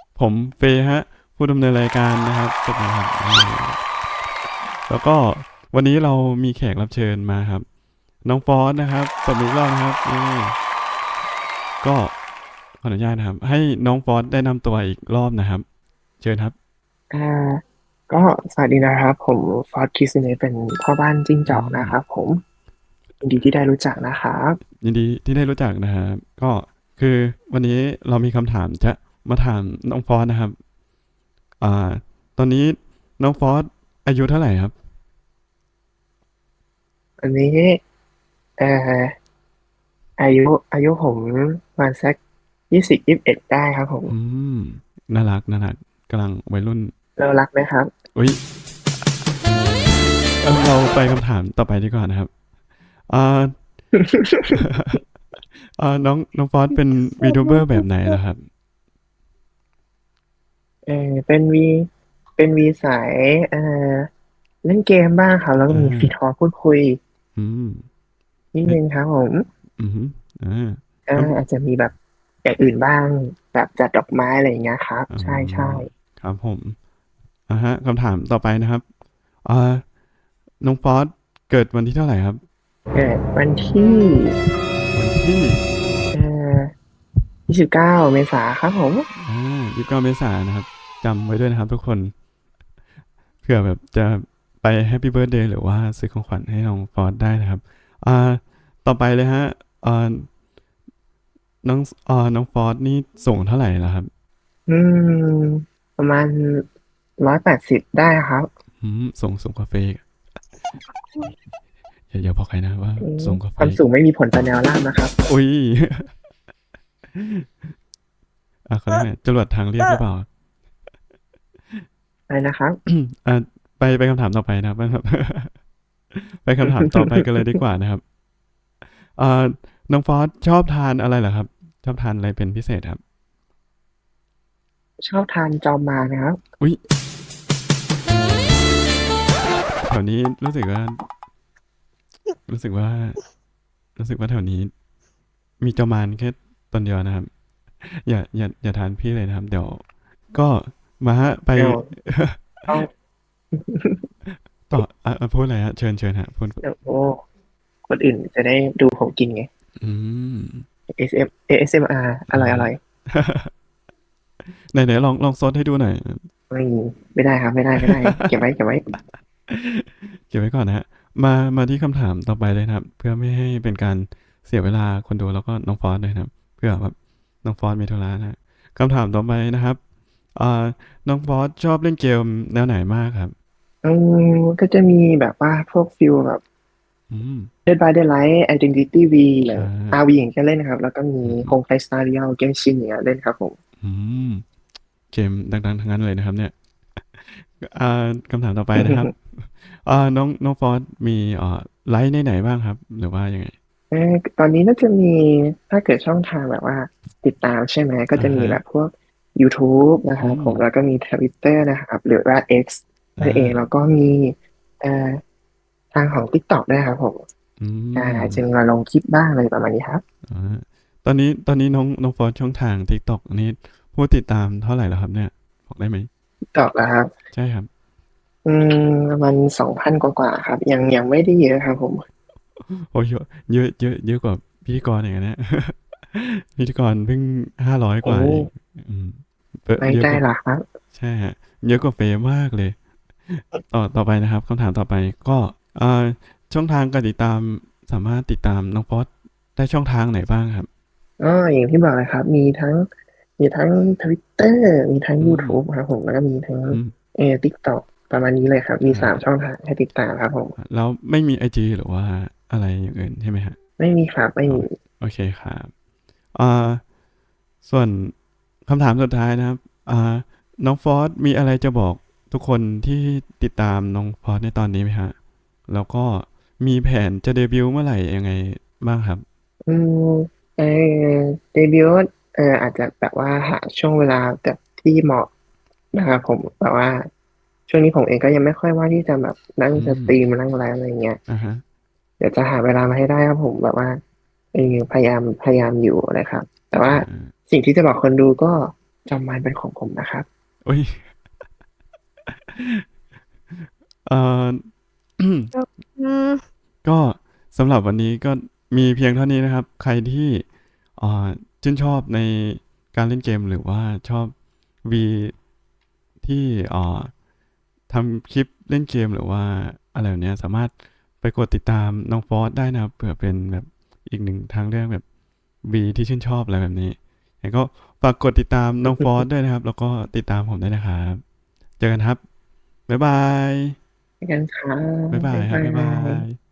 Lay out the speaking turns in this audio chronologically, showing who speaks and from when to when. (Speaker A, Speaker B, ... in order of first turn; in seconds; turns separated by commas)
Speaker A: 0.1-3.8, Speaker A: 4.7-7.7, Speaker A: 8.2-10.6, Speaker A: 11.8-12.1, Speaker A: 12.8-15.6, Speaker A: 16.2-16.5, Speaker B: 17.1-22.4, Speaker A: 21.5-22.0, Speaker B: 23.2-24.6, Speaker A: 24.8-30.6, Speaker A: 31.6-34.7, Speaker B: 37.2-37.8, Speaker B: 38.6-39.1, Speaker B: 40.2-42.2, Speaker B: 42.7-44.1, Speaker A: 44.1-46.9, Speaker B: 47.2-47.9, Speaker A: 48.1-48.4, Speaker A: 49.4-52.3, Speaker A: 53.1-53.5, Speaker B: 53.9-54.6, Speaker A: 54.5-55.0, Speaker A: 55.6-58.5, Speaker B: 57.5-57.8, Speaker B: 60.9-64.1, Speaker B: 64.6-67.0, Speaker A: 65.7-66.1, Speaker A: 67.3-67.8, Speaker B: 68.5-69.5, Speaker A: 69.8-71.3, Speaker B: 71.1-75.9, Speaker A: 75.1-76.8, Speaker A: 77.5-78.8, Speaker A: 79.4-79.8, Speaker A: 80.6-82.4, Speaker B: 82.9-84.4, Speaker A: 84.9-85.6, Speaker B: 86.1-86.7, Speaker B: 87.5-89.1, Speaker A: 89.2-92.1, Speaker A: 93.4-100.3, Speaker A: 101.6-104.1, Speaker B: 104.7-106.7, Speaker B: 107.2-108.5, Speaker A: 108.8-110.0, Speaker A: 112.1-113.8, Speaker B: 113.0-115.1, Speaker A: 115.2-116.1, Speaker A: 117.1-117.7, Speaker A: 118.7-120.3, Speaker B: 122.3-122.8, Speaker A: 122.8-125.5, Speaker A: 126.1-128.0, Speaker A: 129.0-133.0, Speaker B: 135.0-136.4, Speaker A: 138.1-138.6, Speaker A: 139.8-141.0, Speaker A: 142.5-143.2, Speaker A: 144.0-144.7, Speaker A: 145.6-147.3, Speaker A: 147.8-152.8, Speaker B: 151.6-151.9, Speaker B: 153.5-154.0, Speaker A: 154.7-156.6, Speaker B: 156.6-157.2, Speaker B: 157.9-159.5, Speaker A: 159.8-160.6, Speaker B: 160.9-162.8, Speaker A: 162.3-163.5, Speaker A: 164.6-166.2, Speaker B: 166.5-168.9, Speaker A: 167.8-168.3, Speaker A: 169.5-179.8, Speaker A: 180.3-183.3, Speaker B: 183.8-186.4, Speaker A: 187.1-187.5, Speaker B: 187.7-193.6, Speaker A: 189.5-190.0, Speaker A: 191.2-191.5, Speaker A: 193.8-194.4, Speaker A: 195.1-196.5, Speaker A: 197.2-203.5, Speaker B: 198.8-199.1, Speaker B: 203.9-215.2, Speaker A: 208.1-208.6, Speaker A: 210.2-210.6, Speaker A: 213.2-213.6, Speaker B: 215.9-217.2, Speaker A: 217.6-218.4, Speaker B: 217.9-220.0, Speaker A: 220.3-226.1, Speaker B: 226.5-227.1, Speaker A: 227.3-227.7, Speaker B: 228.4-232.0, Speaker A: 232.7-240.2, Speaker B: 238.0-238.5, Speaker B: 239.8-240.6, Speaker A: 240.9-242.8, Speaker A: 243.3-250.7, Speaker B: 251.2-252.8, Speaker B: 253.4-260.5, Speaker A: 255.2-255.6, Speaker A: 258.9-259.2, Speaker A: 260.6-263.6, Speaker B: 263.8-264.7, Speaker A: 264.5-265.7, Speaker A: 266.3-266.8, Speaker A: 267.6-268.1, Speaker A: 268.6-275.1, Speaker A: 275.7-279.2, Speaker B: 279.7-285.3, Speaker B: 285.9-287.1, Speaker B: 287.7-291.2, Speaker A: 289.7-290.1, Speaker A: 291.3-291.6, Speaker B: 292.2-294.0, Speaker B: 294.5-300.3, Speaker A: 296.9-297.3, Speaker A: 300.6-301.0, Speaker A: 302.3-302.8, Speaker A: 303.6-305.5, Speaker A: 306.8-310.4, Speaker A: 311.0-315.3, Speaker A: 316.2-317.1, Speaker A: 317.9-325.0, Speaker A: 325.6-331.2, Speaker B: 328.8-329.2, Speaker A: 331.8-332.2, Speaker A: 332.9-333.8, Speaker B: 334.2-336.2, Speaker A: 335.1-336.4